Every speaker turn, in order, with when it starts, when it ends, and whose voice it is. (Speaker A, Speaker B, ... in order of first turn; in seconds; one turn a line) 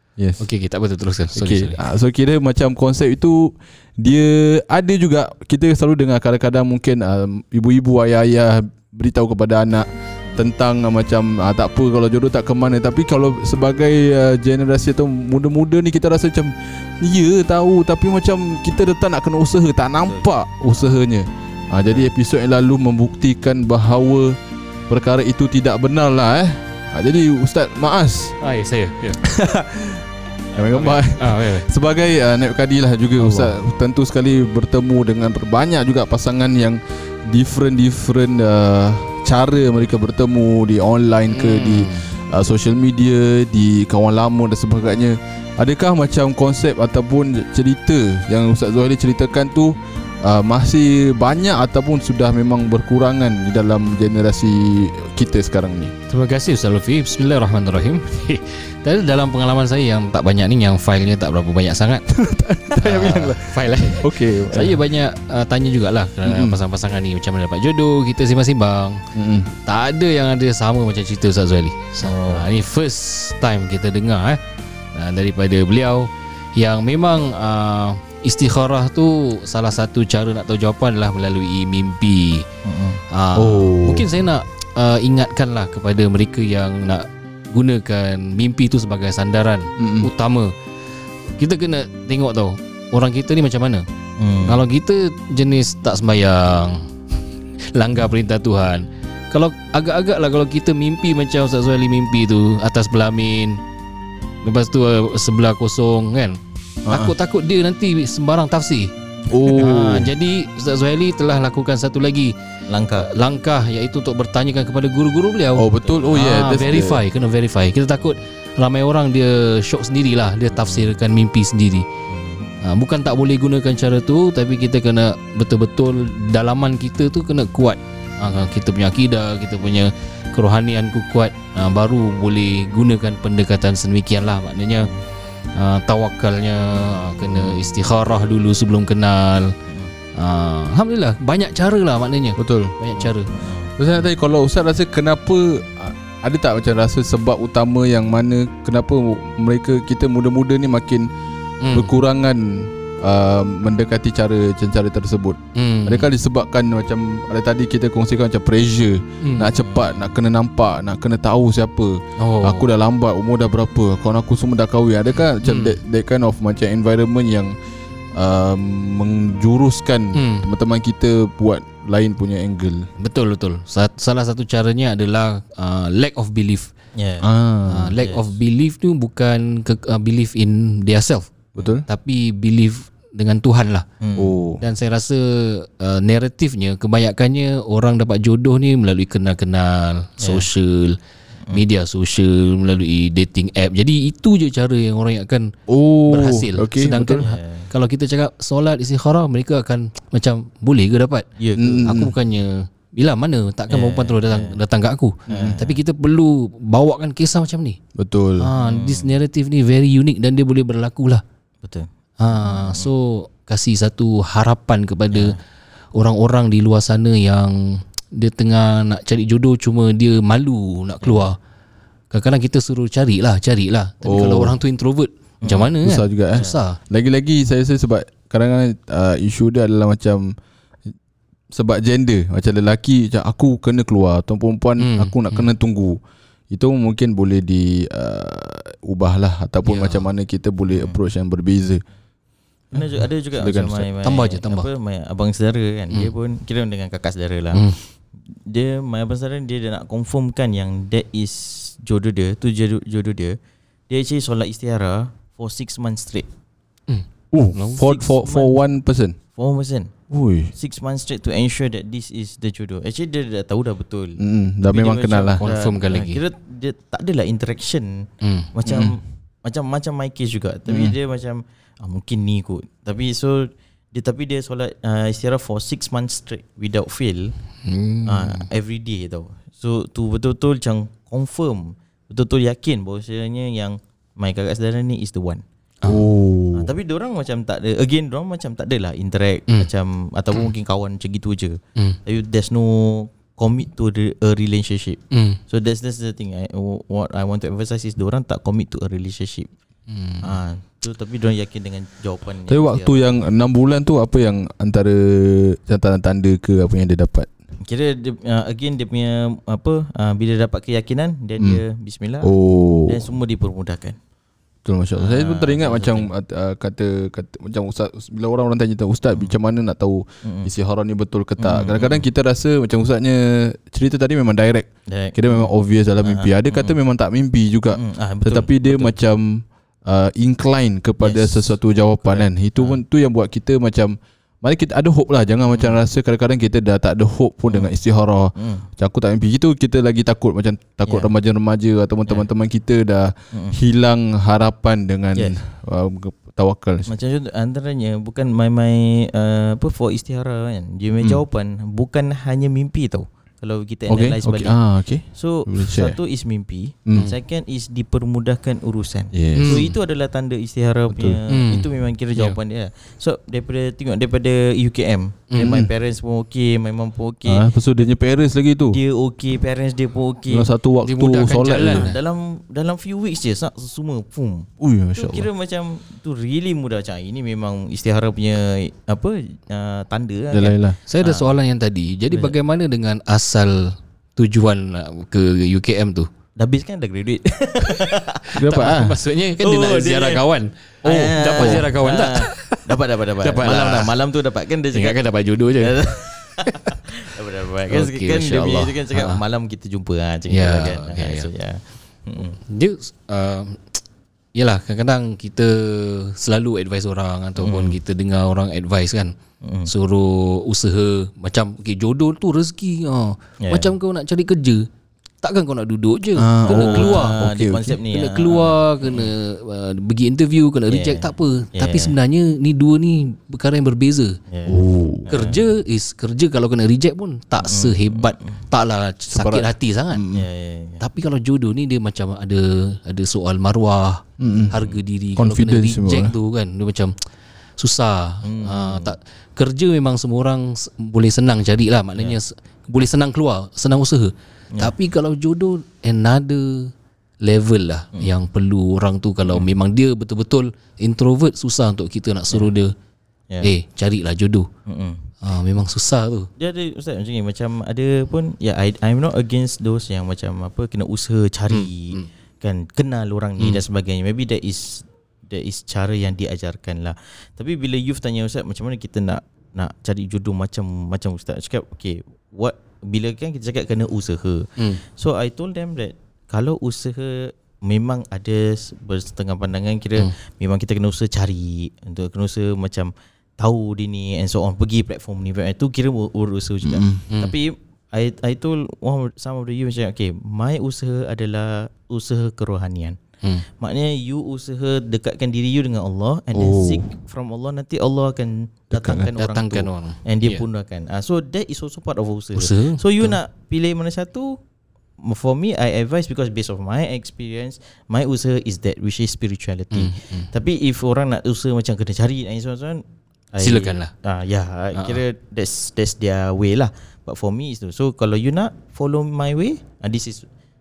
Speaker A: 0.2-0.4
Speaker B: 0.4-1.8
Speaker A: 1.4-24.4
Speaker C: 20.0-21.0
Speaker A: 24.9-28.4
Speaker B: 28.4-29.2
Speaker A: 29.2-55.9
Speaker B: 30.7-31.7
Speaker B: 33.2-33.5
Speaker B: 41.3-42.1
Speaker B: 56.1-62.1
Speaker A: 62.1-64.8
Speaker B: 62.7-74.4
Speaker A: 66.2-66.6
Speaker A: 69.1-69.5
Speaker C: 72.0-72.5
Speaker B: 74.9-82.5
Speaker C: 82.7-83.0
Speaker B: 83.1-90.5
Speaker A: 83.3-84.1
Speaker A: 89.8-90.1
Speaker B: 91.4-93.9
Speaker C: 94.2-94.6
Speaker B: 94.4-96.9
Speaker B: 97.6-103.6
Speaker B: 104.4-108.9
Speaker A: 106.8-107.1
Speaker A: 109.3-110.1
Speaker B: 109.5-112.3
Speaker C: 112.7-113.1
Speaker B: 113.0-121.9
Speaker A: 115.6-117.0
Speaker C: 120.6-120.9
Speaker C: 122.1-122.6
Speaker B: 122.6-134.9
Speaker B: 135.5-139.6
Speaker A: 137.3-137.6
Speaker C: 139.7-139.9
Speaker B: 140.2-143.3
Speaker A: 142.4-142.8
Speaker C: 143.0-143.8
Speaker A: 143.8-151.1
Speaker B: 151.6-151.9
Speaker A: 151.7-167.6
Speaker B: 155.6-156.1
Speaker B: 159.2-159.5
Speaker C: 159.6-159.9
Speaker B: 162.2-162.7
Speaker B: 165.4-165.8
Speaker A: 168.2-172.9
Speaker B: 170.2-170.5
Speaker B: 173.0-176.7
Speaker C: 176.9-177.3
Speaker A: 177.2-177.9
Speaker B: 177.7-181.3
Speaker C: 178.0-178.3
Speaker A: 181.6-181.8
Speaker B: 181.9-183.9
Speaker C: 184.0-184.4
Speaker A: 184.2-184.6
Speaker B: 184.6-191.0
Speaker C: 190.2-190.5
Speaker B: 191.5-195.5
Speaker A: 195.7-197.2
Speaker B: 196.1-201.3
Speaker C: 197.2-197.7
Speaker C: 201.4-201.9
Speaker A: 201.6-202.1
Speaker B: 201.8-207.8
Speaker C: 203.7-204.6
Speaker A: 205.3-205.6
Speaker C: 205.3-205.8
Speaker A: 208.0-208.5
Speaker B: 208.4-211.2
Speaker C: 208.6-209.2
Speaker C: 211.6-212.9
Speaker B: 212.2-215.4
Speaker C: 215.1-215.4
Speaker B: 215.9-221.4
Speaker B: 222.1-226.8
Speaker A: 224.0-224.6
Speaker C: 225.4-225.7
Speaker A: 225.8-230.3
Speaker A: 231.5-236.0
Speaker B: 234.8-235.5
Speaker A: 236.5-241.8
Speaker B: 239.6-240.1
Speaker C: 240.7-241.0
Speaker C: 242.7-247.8
Speaker A: 243.3-243.9
Speaker B: 244.0-244.7
Speaker B: 247.5-247.8
Speaker C: 248.3-253.4
Speaker C: 253.9-256.3
Speaker B: 256.9-257.9
Speaker A: 257.3-259.2
Speaker C: 257.8-258.6
Speaker C: 259.4-259.9
Speaker A: 260.1-260.5
Speaker C: 260.6-277.3
Speaker A: 264.2-265.4
Speaker B: 265.4-266.2
Speaker B: 268.2-268.5
Speaker A: 268.7-268.9
Speaker A: 270.7-271.0
Speaker B: 277.6-278.5
Speaker C: 278.1-285.4
Speaker A: 285.8-286.7
Speaker C: 286.5-299.5
Speaker B: 295.1-295.4
Speaker B: 299.9-300.4
Speaker C: 300.2-303.1
Speaker A: 302.5-307.3
Speaker C: 307.6-312.3
Speaker A: 312.2-313.0
Speaker C: 312.9-314.0
Speaker A: 314.6-346.9
Speaker C: 315.0-316.1
Speaker C: 320.2-320.5
Speaker C: 321.4-322.1
Speaker C: 324.9-325.5
Speaker C: 326.0-326.7
Speaker C: 327.7-329.0
Speaker C: 331.0-332.8
Speaker C: 338.4-338.7
Speaker C: 343.3-343.6
Speaker C: 346.9-367.5
Speaker A: 353.9-356.0
Speaker A: 359.1-359.7
Speaker B: 359.4-359.7
Speaker A: 360.9-361.2
Speaker B: 361.3-362.4
Speaker B: 365.3-365.6
Speaker A: 365.4-365.7
Speaker A: 367.3-368.8
Speaker C: 368.7-370.5
Speaker A: 370.3-371.9
Speaker B: 370.9-372.0
Speaker C: 371.4-381.3
Speaker A: 374.6-375.3
Speaker A: 380.3-380.8
Speaker B: 380.9-386.1
Speaker C: 386.4-388.7
Speaker B: 388.4-393.9
Speaker A: 388.4-389.0
Speaker C: 389.4-390.2
Speaker C: 390.8-395.0
Speaker A: 390.9-391.7
Speaker B: 394.7-396.8
Speaker C: 395.6-402.4
Speaker B: 397.7-399.2
Speaker B: 400.3-401.3
Speaker B: 402.5-403.8
Speaker B: 404.4-409.1
Speaker C: 407.4-407.8
Speaker C: 409.4-409.7
Speaker B: 409.7-414.7
Speaker C: 413.4-413.7
Speaker B: 415.2-417.2
Speaker A: 416.2-417.8
Speaker C: 416.5-419.1
Speaker B: 417.9-424.2
Speaker C: 420.7-422.0
Speaker C: 424.3-425.4
Speaker A: 424.4-425.1
Speaker B: 425.1-430.0
Speaker C: 427.4-428.4
Speaker A: 429.1-430.3
Speaker C: 430.1-430.8
Speaker B: 430.8-436.9
Speaker A: 434.2-434.6
Speaker C: 434.5-434.8
Speaker A: 435.2-436.1
Speaker B: 437.6-446.7
Speaker C: 438.2-438.9
Speaker B: 447.2-452.7
Speaker C: 449.2-449.5
Speaker B: 453.4-454.5
Speaker C: 454.7-455.1
Speaker B: 455.2-456.3
Speaker C: 456.4-493.0
Speaker B: 461.5-462.1
Speaker A: 486.6-487.0
Speaker B: 487.1-487.4
Speaker C: 493.6-504.4
Speaker A: 496.3-496.8
Speaker A: 498.7-499.1
Speaker B: 499.2-500.4
Speaker B: 502.4-503.2
Speaker C: 505.0-520.3
Speaker B: 509.7-510.3
Speaker B: 513.4-513.9
Speaker B: 514.7-515.0